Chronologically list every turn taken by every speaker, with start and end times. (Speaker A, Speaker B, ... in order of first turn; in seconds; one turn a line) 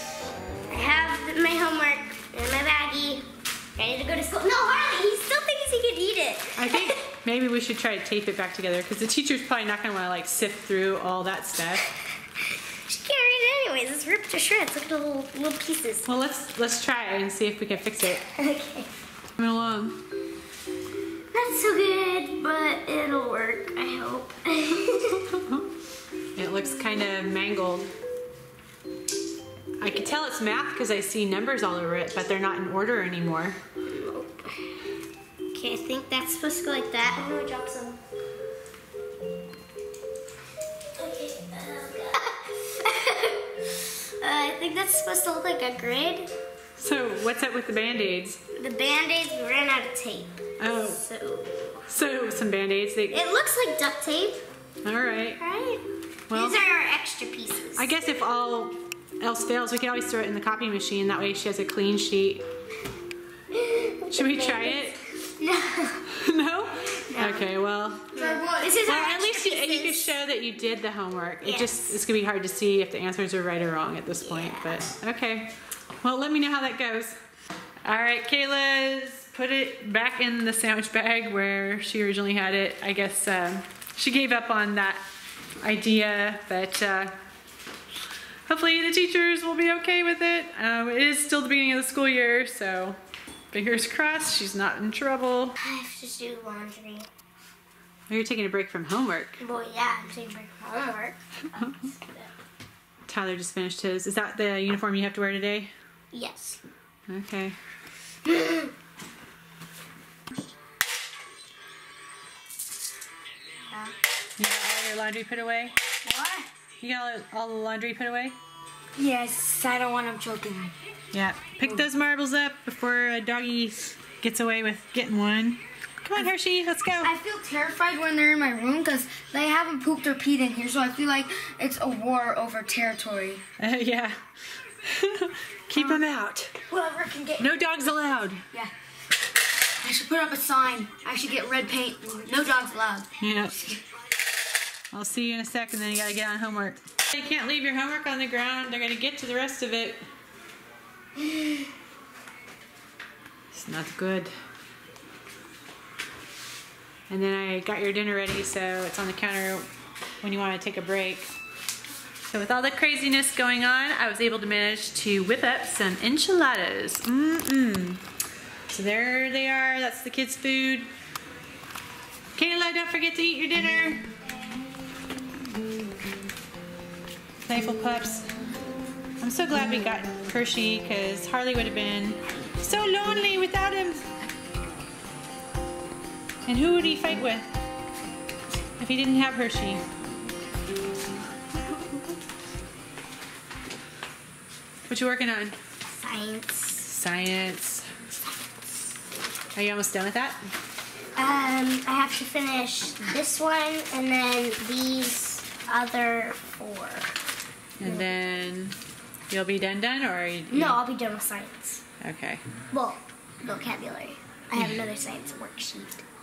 Speaker A: 0.7-7.0
Speaker B: 6.6-11.9
Speaker A: 12.9-16.1
Speaker B: 16.1-18.2
Speaker A: 18.2-18.9
Speaker B: 19.4-20.0
Speaker A: 21.3-25.2
Speaker B: 26.4-27.9
Speaker B: 29.8-33.6
Speaker A: 33.8-34.7
Speaker A: 35.5-38.0
Speaker A: 41.0-43.4
Speaker A: 44.2-46.3
Speaker B: 46.8-48.4
Speaker A: 48.6-51.8
Speaker B: 50.6-51.0
Speaker B: 51.9-53.2
Speaker A: 53.1-54.4
Speaker B: 54.8-55.4
Speaker A: 55.4-57.9
Speaker B: 56.3-56.6
Speaker B: 57.8-62.4
Speaker A: 63.5-66.0
Speaker B: 64.1-65.0
Speaker B: 66.1-68.0
Speaker A: 67.1-67.5
Speaker C: 68.1-68.9
Speaker A: 68.1-70.1
Speaker B: 68.8-77.2
Speaker A: 71.4-72.0
Speaker A: 74.3-74.8
Speaker B: 77.8-85.0
Speaker B: 85.6-87.1
Speaker B: 88.5-93.0
Speaker B: 93.5-95.5
Speaker A: 95.6-97.1
Speaker B: 98.1-99.4
Speaker A: 99.4-102.3
Speaker B: 103.1-105.7
Speaker A: 106.1-106.6
Speaker B: 107.1-107.6
Speaker A: 108.3-108.7
Speaker B: 114.4-115.7
Speaker C: 116.0-116.5
Speaker B: 116.8-118.4
Speaker C: 119.0-120.7
Speaker B: 121.1-127.1
Speaker C: 127.0-133.4
Speaker B: 133.6-134.2
Speaker B: 134.9-136.5
Speaker C: 135.8-136.0
Speaker C: 136.7-137.5
Speaker B: 137.4-138.4
Speaker C: 139.8-143.1
Speaker B: 143.2-143.6
Speaker B: 144.9-150.0
Speaker B: 153.5-154.3
Speaker B: 157.1-159.7
Speaker B: 160.2-161.3
Speaker B: 162.3-168.0
Speaker B: 168.7-170.9
Speaker B: 172.3-174.0
Speaker B: 177.5-178.3
Speaker B: 179.2-184.1
Speaker B: 186.5-187.5
Speaker B: 188.8-189.8
Speaker B: 194.9-195.6
Speaker A: 195.9-196.9
Speaker B: 196.8-197.9
Speaker B: 199.6-200.4
Speaker A: 201.2-207.1
Speaker B: 207.8-208.8
Speaker B: 209.3-210.8
Speaker A: 210.5-211.8
Speaker B: 212.0-212.4
Speaker A: 212.7-216.0